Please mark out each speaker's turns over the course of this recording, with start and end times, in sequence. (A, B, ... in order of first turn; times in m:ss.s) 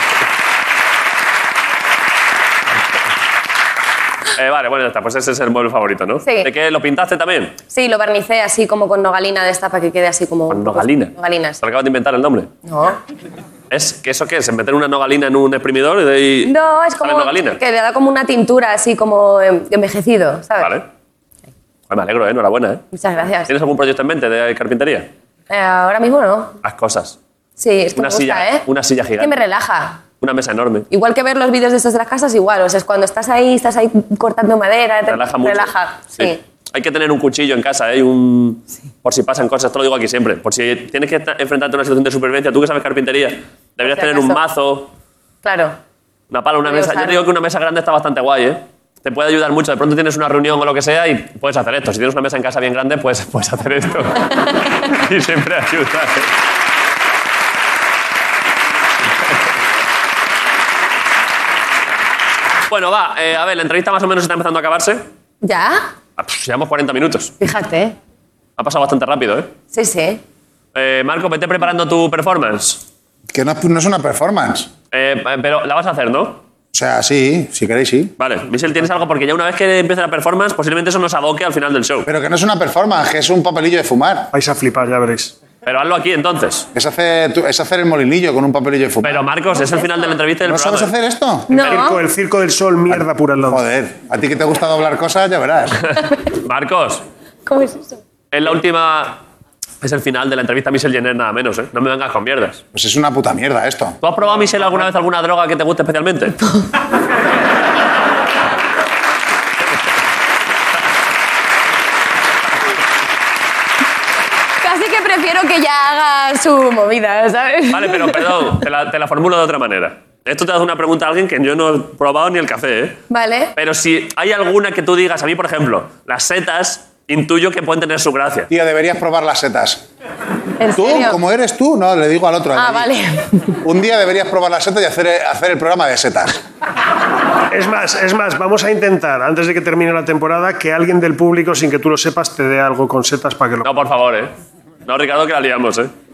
0:04.4-0:07.6 A
0:06.2-0:06.5 B
0:07.7-0:11.6 B
0:10.5-0:12.5 A
0:12.6-0:13.0 B
0:13.7-0:17.6 A
0:16.4-0:20.8 B
0:20.6-0:20.8 A
0:21.9-0:22.8 A
0:22.9-0:23.5 B
0:23.5-0:25.1 A
0:25.5-0:26.6 B
0:26.6-0:27.2 A
0:27.6-0:28.7 B
0:28.0-0:29.4 A
0:29.2-0:30.0 B
0:30.2-0:30.9 A
0:30.9-0:36.4 B
0:35.1-0:44.9 A
0:43.8-0:44.4 B
0:45.4-0:45.7 B
0:46.3-0:56.3 A
0:46.6-0:47.3 B
1:02.7-1:05.0 A
1:05.4-1:05.9 B
1:06.2-1:07.3 A
1:07.4-1:07.9 B
1:08.6-1:09.5 A
1:09.7-1:10.2 B
1:10.7-1:12.8 A
1:13.3-1:14.7 C
1:14.9-1:16.4 A
1:16.7-1:18.1 C
1:18.2-1:22.1 A
1:22.0-1:24.3 C
1:24.3-1:25.4 D
1:25.6-1:26.7 A
1:26.7-1:29.2 C
1:29.0-1:30.9 A
1:30.4-1:31.5 C
1:31.5-1:32.0 B
1:31.5-1:33.6 D
1:31.5-1:31.9 A
1:32.9-1:35.8 C
1:35.8-1:37.0 A
1:37.4-1:38.0 B
1:38.3-1:39.2 A
1:39.8-1:42.6 A
1:42.7-1:44.0 C
1:44.0-1:46.4 A
1:54.6-1:58.6 B
1:57.7-2:03.0 A
2:03.1-2:03.5 B
2:03.6-2:08.5 A
2:08.5-2:09.8 C
2:10.6-2:11.2 B
2:10.8-2:12.9 C
2:12.5-2:13.5 B
2:13.6-2:16.4 C
2:17.5-2:23.7 D
2:23.6-2:24.3 A
2:24.8-2:25.9 A